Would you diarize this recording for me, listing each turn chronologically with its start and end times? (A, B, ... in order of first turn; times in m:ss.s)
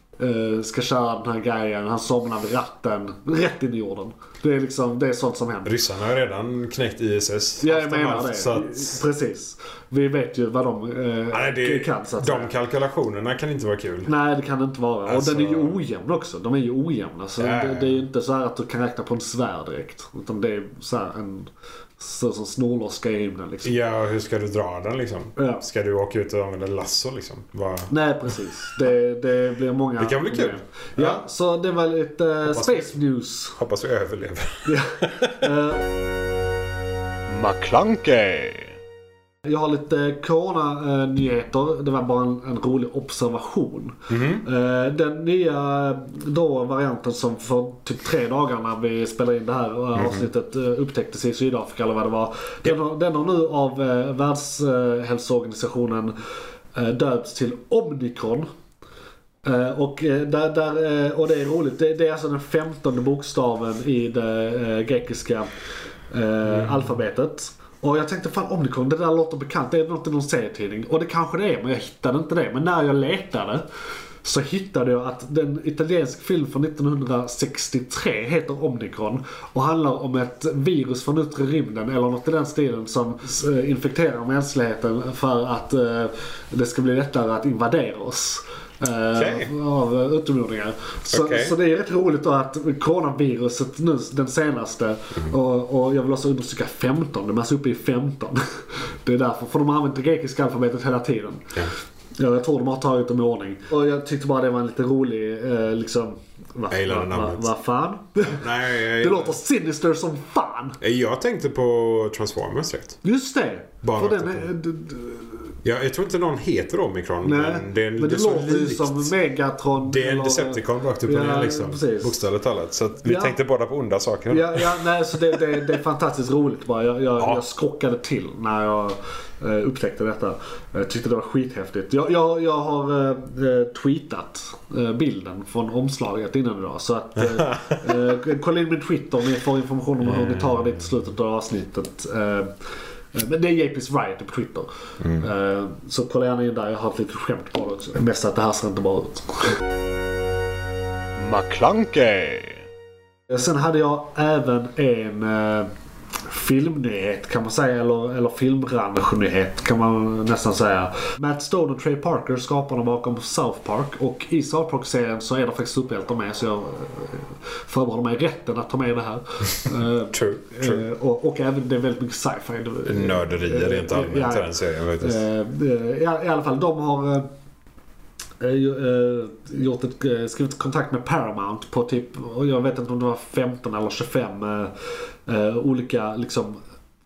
0:00.2-0:05.7 A
0:05.6-0:09.0 B
0:07.6-0:12.5 A
0:11.3-0:14.1 B
0:14.0-0:23.8 A
0:15.1-0:15.8 B
0:17.4-0:18.0 B
0:23.6-0:27.9 B
0:25.4-0:25.6 A
0:27.9-0:33.6 A
0:30.0-0:31.2 B
0:32.5-0:32.9 B
0:33.6-0:35.5 B
0:34.7-0:35.8 A
0:37.3-0:38.8 C
0:39.4-0:56.2 A
0:44.1-0:44.4 B
0:50.0-0:50.3 B
0:56.7-0:58.5 A
0:59.4-1:05.5 A
1:06.1-1:13.6 A
1:06.5-1:06.9 B
1:14.2-1:41.6 A
1:29.2-1:29.5 B
1:31.1-1:31.6 B
1:42.2-1:50.8 A
1:46.7-1:47.5 B
1:48.2-1:49.4 B
1:50.8-1:53.0 B
1:53.0-1:55.6 A
1:53.8-1:54.5 B
1:55.6-1:59.1 B
1:57.2-2:02.2 A
1:59.8-2:04.8 B
2:03.0-2:03.4 A
2:04.3-2:22.5 A
2:17.4-2:17.9 B
2:20.0-2:20.7 B
2:23.1-2:29.6 A
2:31.2-2:32.6 C
2:33.3-2:35.7 A
2:36.2-2:57.3 A
2:50.1-2:50.8 B
2:52.9-2:55.2 B
2:58.4-3:04.8 A
3:05.3-3:06.6 A